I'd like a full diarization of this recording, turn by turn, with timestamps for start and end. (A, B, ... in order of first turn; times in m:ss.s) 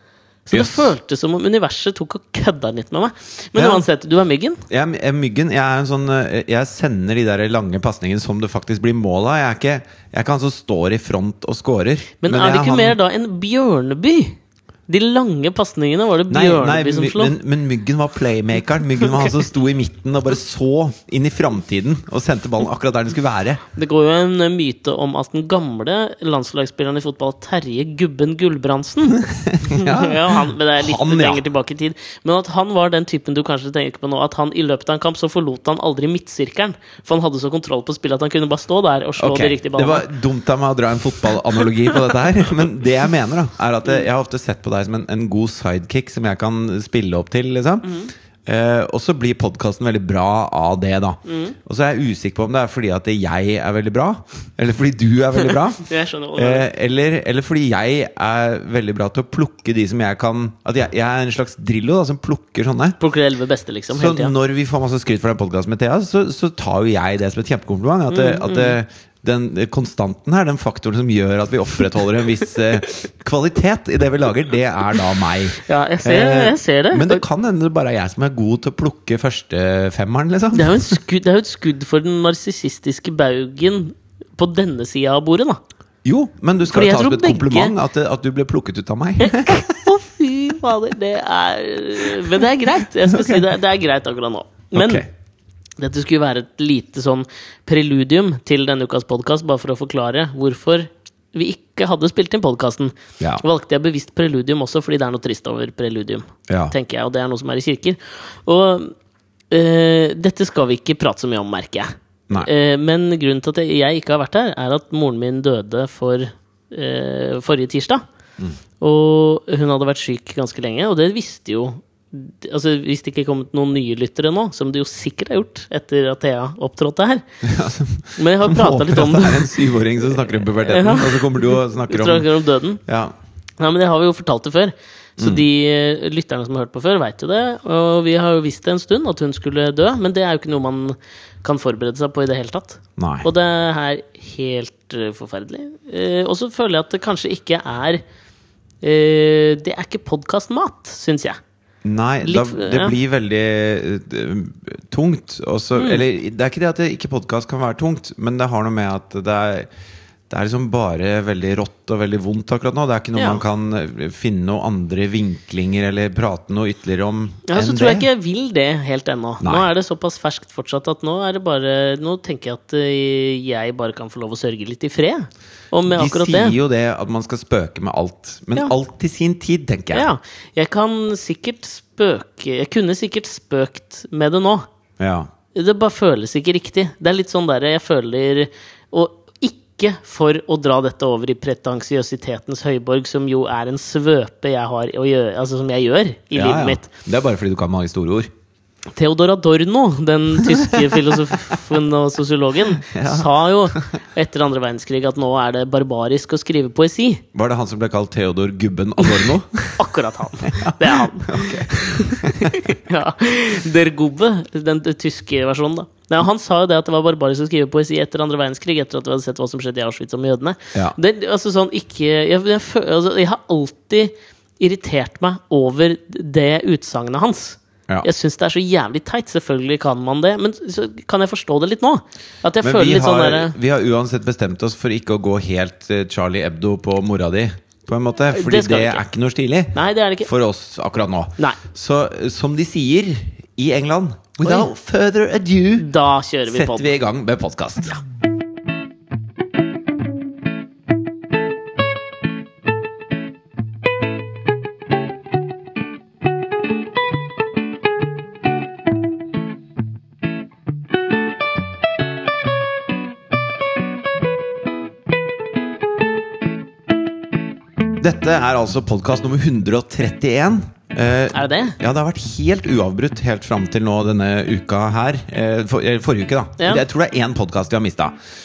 0:00.5-0:04.6 A
0:00.5-0:00.9 B
0:03.5-0:03.8 B
0:04.7-0:13.0 B
0:12.2-0:17.3 A
0:16.3-0:23.6 B
0:23.7-0:40.1 A
0:29.3-0:31.4 B
0:39.2-0:47.9 B
0:47.8-0:48.1 A
0:48.4-1:03.0 B
0:51.2-0:51.5 A
0:55.8-0:56.6 A
1:03.0-1:04.3 A
1:03.9-1:21.0 B
1:08.1-1:08.8 A
1:15.6-1:17.2 A
1:20.5-1:25.6 A
1:26.0-1:29.9 B
1:26.7-1:27.7 A
1:29.2-1:35.0 A
1:33.0-1:33.4 B
1:34.7-1:35.1 B
1:35.8-1:48.9 A
1:46.5-1:46.7 B
1:49.5-1:58.0 A
1:58.8-2:07.2 A
2:07.4-2:12.3 B
2:08.2-2:12.8 A
2:12.8-2:13.1 B
2:13.6-2:28.0 A
2:15.2-2:15.4 B
2:23.0-2:23.3 B
2:28.8-2:31.4 A
2:31.8-2:39.7 B
2:32.2-2:32.9 A
2:35.8-2:36.0 A
2:40.3-2:48.1 B
2:43.1-2:43.4 A
2:47.5-2:56.5 A
2:49.4-2:49.7 B
2:55.9-3:00.1 B
2:59.9-3:04.7 A
3:05.0-3:05.3 B
3:05.5-3:16.9 A
3:16.3-3:18.3 B
3:19.0-3:27.2 A
3:20.5-3:21.2 B
3:22.8-3:23.8 B
3:27.3-3:29.8 B
3:29.8-3:53.5 A
3:30.4-3:32.7 B
3:52.6-4:05.9 B
3:58.3-3:59.0 A
3:59.7-4:00.3 A
4:04.4-4:04.7 A
4:05.8-4:06.9 A
4:06.5-4:08.0 B
4:28.0-4:38.1 B
4:31.3-4:31.8 A